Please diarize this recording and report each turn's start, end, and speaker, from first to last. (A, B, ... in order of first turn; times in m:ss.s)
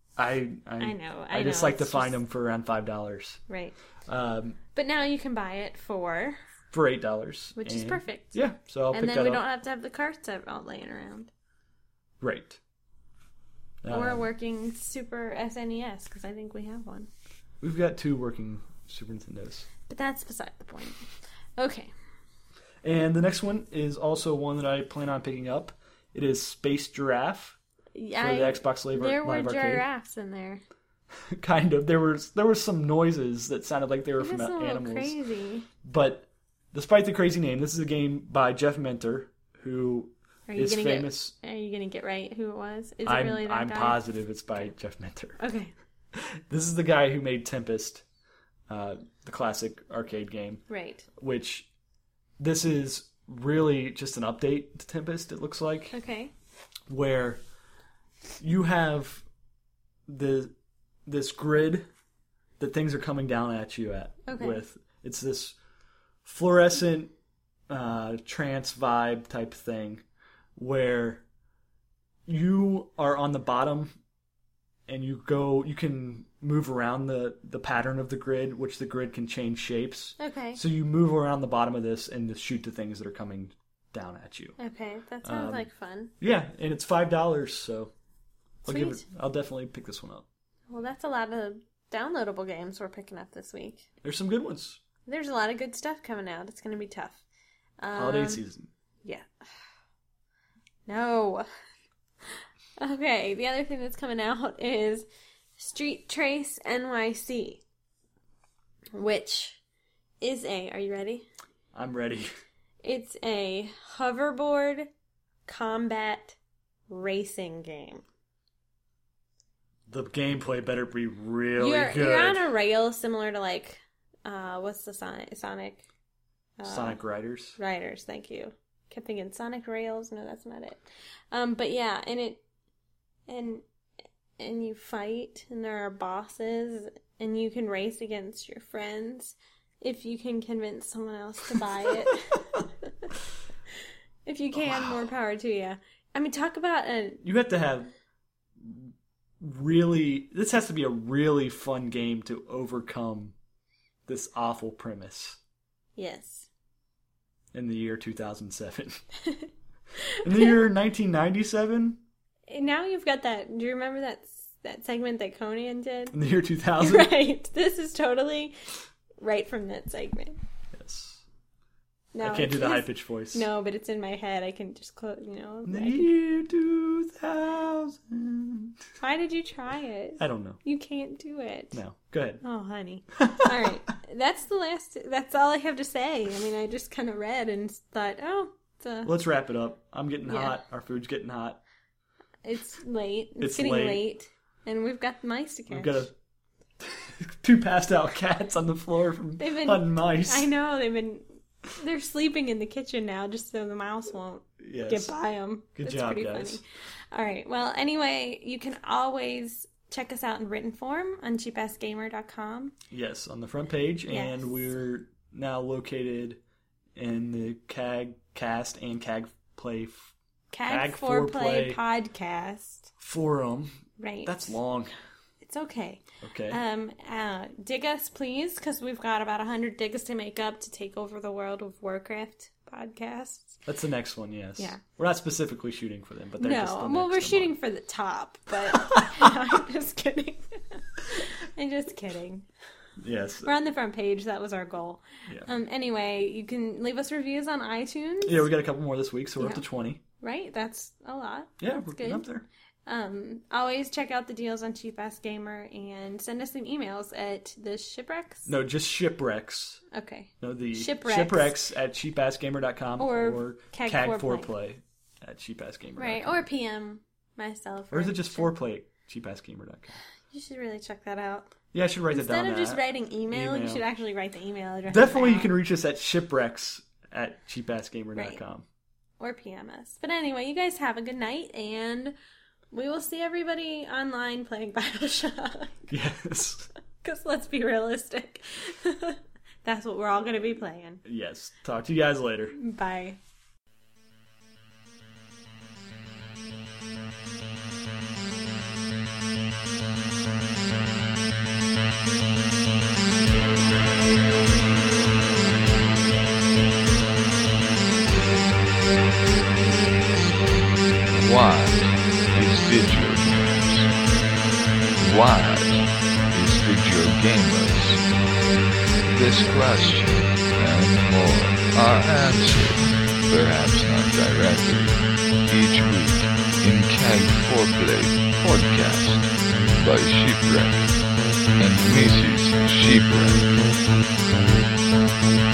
0:00.2-0:03.4 A
0:00.8-0:02.2 B
0:03.5-0:03.7 B
0:04.1-0:04.6 A
0:04.7-0:06.4 B
0:06.7-0:09.4 A
0:07.6-0:08.4 B
0:08.9-0:11.3 B
0:12.2-0:12.6 A
0:13.8-0:14.2 A
0:13.9-0:17.1 B
0:17.6-0:19.7 A
0:19.9-0:21.9 B
0:22.8-0:27.6 A
0:27.9-0:30.6 B
0:28.2-0:29.8 A
0:31.3-0:35.2 A
0:34.2-0:35.7 B
0:35.8-0:41.3 A
0:40.5-0:44.0 B
0:43.0-0:45.4 A
0:45.4-0:45.7 B
0:46.1-0:48.0 A
0:48.7-0:50.6 A
0:50.7-0:51.1 B
0:51.2-0:51.7 A
0:52.4-0:56.0 A
0:55.9-0:56.3 B
0:56.9-0:57.4 A
0:58.4-0:59.2 A
1:00.1-1:00.5 A
1:01.0-1:01.9 A
1:02.6-1:05.6 A
1:04.2-1:04.6 B
1:06.2-1:07.1 A
1:07.7-1:10.0 A
1:10.6-1:11.2 A
1:12.2-1:13.9 A
1:14.9-1:24.6 A
1:20.2-1:20.6 B
1:24.6-1:26.1 B
1:25.2-1:25.7 A
1:26.2-1:27.9 A
1:28.6-1:30.2 A
1:28.7-1:29.0 B
1:30.7-1:33.9 B
1:34.0-1:34.8 A
1:35.0-1:37.2 B
1:37.8-1:38.4 B
1:38.0-1:38.7 A
1:40.9-1:41.5 B
1:42.8-1:45.1 B
1:45.6-1:47.6 B
1:48.9-1:49.6 B
1:50.2-1:51.3 B
1:51.7-1:52.3 A
1:52.8-1:54.9 B
1:55.4-1:56.4 B
1:56.9-1:58.0 B
1:59.9-2:02.5 A
2:01.6-2:05.8 B
2:06.6-2:07.0 B
2:06.6-2:07.6 A
2:07.6-2:12.4 B
2:13.3-2:13.6 B
2:14.4-2:23.1 B
2:24.2-2:27.2 B
2:24.6-2:25.0 A
2:27.2-2:27.9 A
2:28.6-2:33.3 A
2:34.1-2:35.4 A
2:36.0-2:36.5 B
2:37.5-2:39.0 A
2:39.2-2:40.5 B
2:40.2-2:42.0 A
2:42.5-2:46.2 B
2:46.1-2:47.1 A
2:46.8-2:48.5 B
2:49.2-2:50.4 B
2:50.7-2:51.2 A
2:52.1-2:56.1 B
2:52.2-2:53.5 A
2:55.6-2:58.8 A
2:59.0-3:01.8 B
3:00.2-3:00.6 A
3:01.7-3:02.4 A
3:02.4-3:09.1 B
3:03.2-3:03.7 A
3:09.0-3:11.6 A
3:10.2-3:10.6 B
3:12.4-3:16.0 B
3:13.4-3:14.0 A
3:15.7-3:16.1 A
3:16.8-3:20.5 A
3:19.4-3:21.2 B
3:21.8-3:32.7 B
3:24.6-3:25.1 A
3:25.8-3:26.6 A
3:32.9-3:36.4 A
3:34.1-3:34.4 B
3:37.0-3:40.1 A
3:40.5-3:42.9 B
3:40.6-3:41.8 A
3:43.0-3:44.9 A
3:44.0-3:44.6 B
3:45.4-3:53.6 B
3:46.2-3:46.6 A
3:53.6-3:57.6 A
3:56.4-4:02.4 B
3:58.7-3:59.3 A
4:03.0-4:03.5 A
4:03.4-4:08.5 B
4:08.2-4:10.0 A
4:09.4-4:09.6 B
4:10.2-4:12.3 B
4:11.6-4:12.4 A
4:12.8-4:18.5 B
4:18.4-4:19.8 A
4:19.9-4:21.5 B
4:20.4-4:26.4 A
4:23.0-4:24.5 B
4:26.0-4:28.5 B
4:27.9-4:30.0 A
4:30.3-4:31.6 B
4:31.7-4:33.8 A
4:32.1-4:35.5 B
4:34.9-4:38.6 A
4:38.1-4:38.4 B
4:39.2-4:42.1 B
4:42.7-4:45.9 B
4:45.9-4:46.7 A
4:47.0-4:51.0 B
4:51.0-4:52.6 A
4:52.5-4:53.2 B
5:11.1-5:13.9 C
5:15.0-5:18.1 C
5:19.1-5:31.0 C
5:31.6-5:33.6 C